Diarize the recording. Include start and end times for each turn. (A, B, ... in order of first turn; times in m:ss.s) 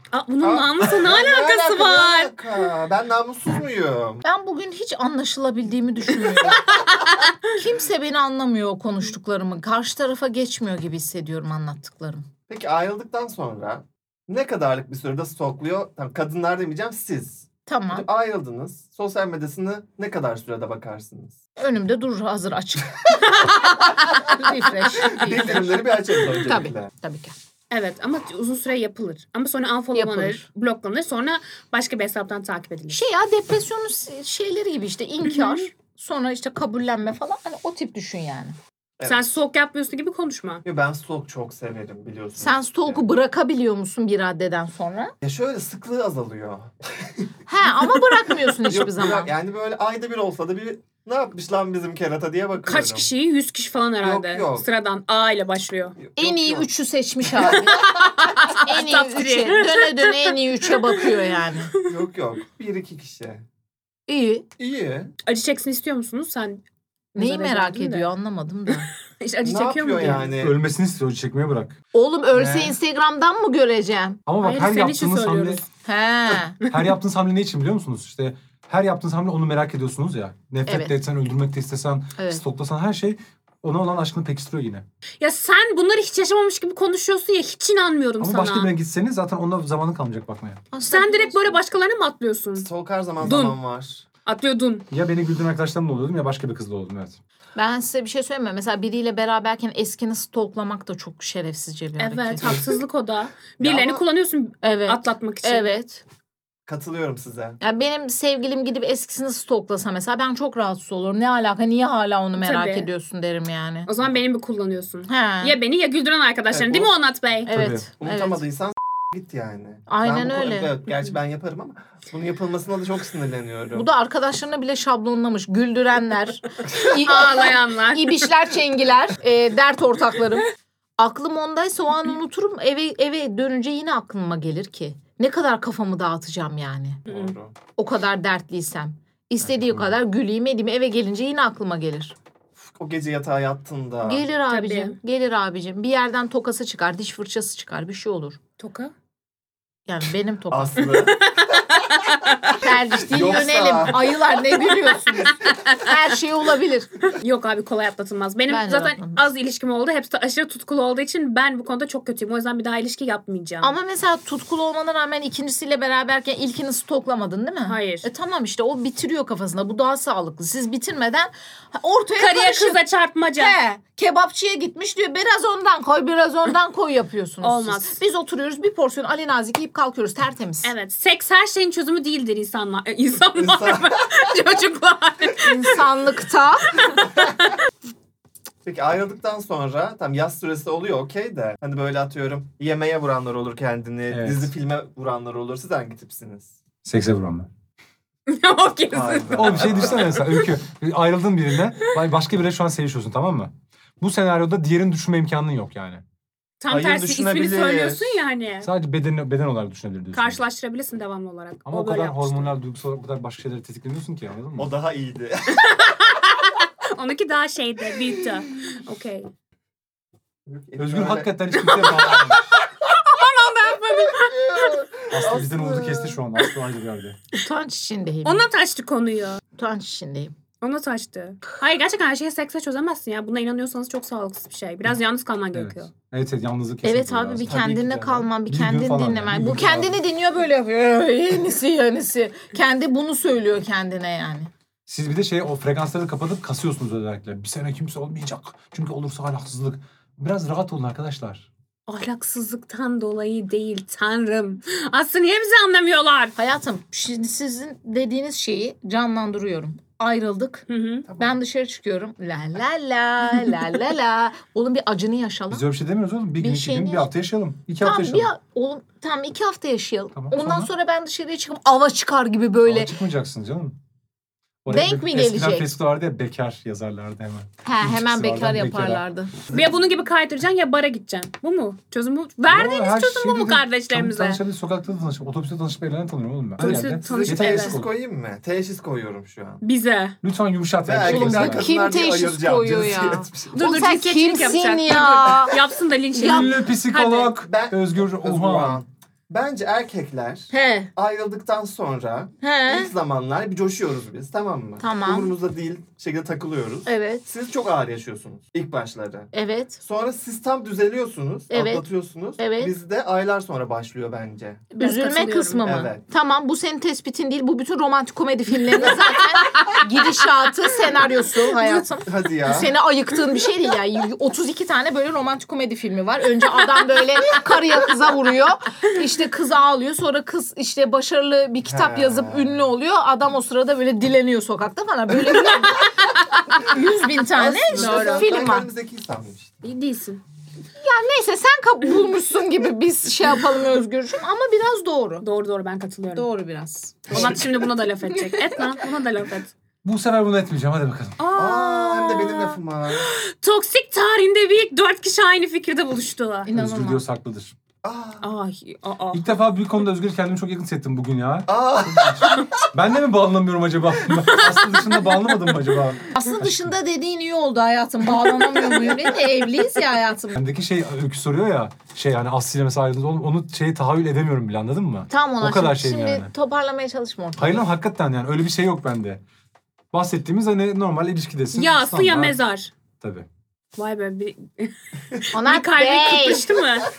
0:00.1-0:02.3 A
0:00.4-0:04.2 B
0:04.2-0:06.7 C
0:06.3-0:07.3 A
0:07.5-0:12.2 C
0:12.5-0:21.4 B
0:17.6-0:18.0 C
0:21.6-0:27.3 C
0:23.2-0:24.4 A
0:25.0-0:26.9 B
0:27.7-0:33.0 A
0:29.9-0:30.4 C
0:32.9-0:38.6 C
0:39.0-0:39.2 B
0:39.0-0:40.6 A
0:40.6-0:43.1 B
0:42.4-0:45.1 C
0:45.2-0:47.3 B
0:47.5-0:49.3 C
0:48.6-0:53.1 B
0:52.6-0:56.0 A
0:54.0-0:54.7 B
0:56.0-0:56.7 B
0:56.2-0:57.9 C
0:57.3-0:57.9 B
0:57.4-1:01.2 A
0:58.5-1:01.7 C
1:01.8-1:03.4 B
1:04.1-1:04.4 C
1:04.6-1:05.1 B
1:05.2-1:06.6 A
1:07.1-1:08.1 A
1:07.1-1:08.9 C
1:09.2-1:10.3 A
1:09.4-1:10.6 B
1:10.3-1:11.7 D
1:11.9-1:14.2 C
1:12.3-1:12.8 B
1:14.2-1:15.6 D
1:14.4-1:15.6 A
1:15.8-1:16.6 C
1:16.6-1:24.8 D
1:20.6-1:21.0 C
1:22.2-1:22.4 C
1:25.2-1:28.7 A
1:28.2-1:30.6 D
1:30.7-1:31.6 C
1:30.9-1:32.7 A
1:32.6-1:34.0 B
1:33.2-1:33.6 A
1:34.2-1:34.9 A
1:34.9-1:37.2 D
1:37.6-1:42.6 C
1:42.0-1:45.7 A
1:43.6-1:44.0 B
1:44.6-1:46.0 C
1:46.7-1:47.6 B
1:47.6-1:53.9 C
1:52.4-1:52.9 A
1:53.9-1:57.5 A
1:55.1-1:55.6 C
1:56.5-1:56.9 B
1:57.5-1:58.4 C
1:57.5-1:57.8 D
1:58.0-2:03.9 B
1:59.9-2:00.7 C
2:03.7-2:17.0 C
2:06.8-2:08.3 A
2:17.1-2:17.3 A
2:17.1-2:17.5 B
2:17.8-2:22.1 C
2:22.8-2:24.2 B
2:24.0-2:28.4 C
2:24.5-2:25.0 A
2:28.6-2:28.9 A
2:29.9-2:30.9 C
2:30.5-2:31.4 B
2:30.9-2:32.5 A
2:32.6-2:36.9 C
2:32.9-2:34.1 B
2:34.7-2:35.8 A
2:37.1-2:43.7 A
2:38.5-2:39.2 C
2:43.6-2:52.8 C
2:47.7-2:48.1 A
2:52.2-2:53.6 A
2:53.4-3:00.7 C
2:57.4-2:58.0 A
3:00.6-3:05.8 A
3:03.4-3:04.0 B
3:05.4-3:06.8 C
3:08.6-3:16.6 B
3:14.1-3:14.5 D
3:16.8-3:17.5 D
3:18.3-3:20.3 A
3:18.9-3:20.4 B
3:19.3-3:26.0 D
3:26.6-3:28.7 A
3:26.7-3:28.1 B
3:28.6-3:30.4 D
3:30.1-3:32.5 A
3:31.7-3:34.7 D
3:34.6-3:35.8 B
3:35.5-3:39.3 A
3:40.5-3:41.3 B
3:40.8-3:42.4 D
3:41.5-3:44.8 A
3:43.9-3:46.2 B
3:45.1-3:47.2 D
3:47.4-3:48.4 C
3:48.2-3:49.4 A
3:49.6-3:50.3 C
3:50.6-3:55.9 A
3:55.5-4:00.0 D
3:56.8-4:04.5 C
3:57.4-3:58.2 B
4:04.9-4:11.5 D
4:11.9-4:16.3 A
4:16.4-4:25.7 C
4:20.7-4:21.1 A
4:21.1-4:21.4 B
4:25.5-4:28.3 D
4:26.4-4:27.1 C
4:27.8-4:32.9 C
4:30.1-4:30.7 D
4:32.6-4:33.8 D
4:34.6-4:39.0 D
4:34.7-4:35.7 C
4:37.6-4:39.3 C
4:39.5-4:44.4 A
4:42.5-4:47.9 D
4:46.6-4:47.8 A
4:46.6-4:49.6 B
4:49.6-4:50.2 A
4:50.2-4:51.7 D
4:50.8-4:53.6 B
4:51.0-4:55.6 C
4:53.5-4:57.4 A
4:56.1-4:56.5 C
4:56.2-4:58.8 D
4:57.4-5:09.3 B
5:00.5-5:00.9 C
5:02.4-5:02.9 C
5:04.8-5:05.3 C
5:06.8-5:07.3 C
5:09.3-5:09.8 C
5:09.8-5:14.6 B
5:11.5-5:11.8 C
5:12.4-5:12.7 C
5:14.7-5:15.7 A
5:14.8-5:36.0 C
5:15.6-5:16.0 B
5:18.8-5:19.2 B
5:19.5-5:19.8 A
5:22.0-5:22.7 B
5:31.6-5:32.6 B
5:35.7-5:36.6 A
5:36.6-5:38.7 C
5:37.3-5:39.6 B
5:37.7-5:38.5 A
5:39.6-5:40.2 A
5:40.8-5:45.2 C
5:45.2-5:46.2 A
5:46.1-5:47.3 C
5:47.1-5:47.4 B
5:47.1-5:49.5 A
5:49.8-5:51.2 D
5:51.2-5:56.5 A
5:51.3-5:53.1 B
5:56.4-5:57.0 C
5:56.5-5:57.5 D
5:57.8-5:58.2 B
5:58.2-5:59.2 A
5:59.1-6:06.7 D
6:01.5-6:02.6 B
6:06.1-6:10.4 C
6:10.3-6:16.3 D
6:15.1-6:17.7 C
6:17.4-6:19.2 D
6:19.9-6:22.4 D
6:21.5-6:22.7 A
6:23.0-6:23.3 D
6:23.8-6:26.9 A
6:25.3-6:26.5 C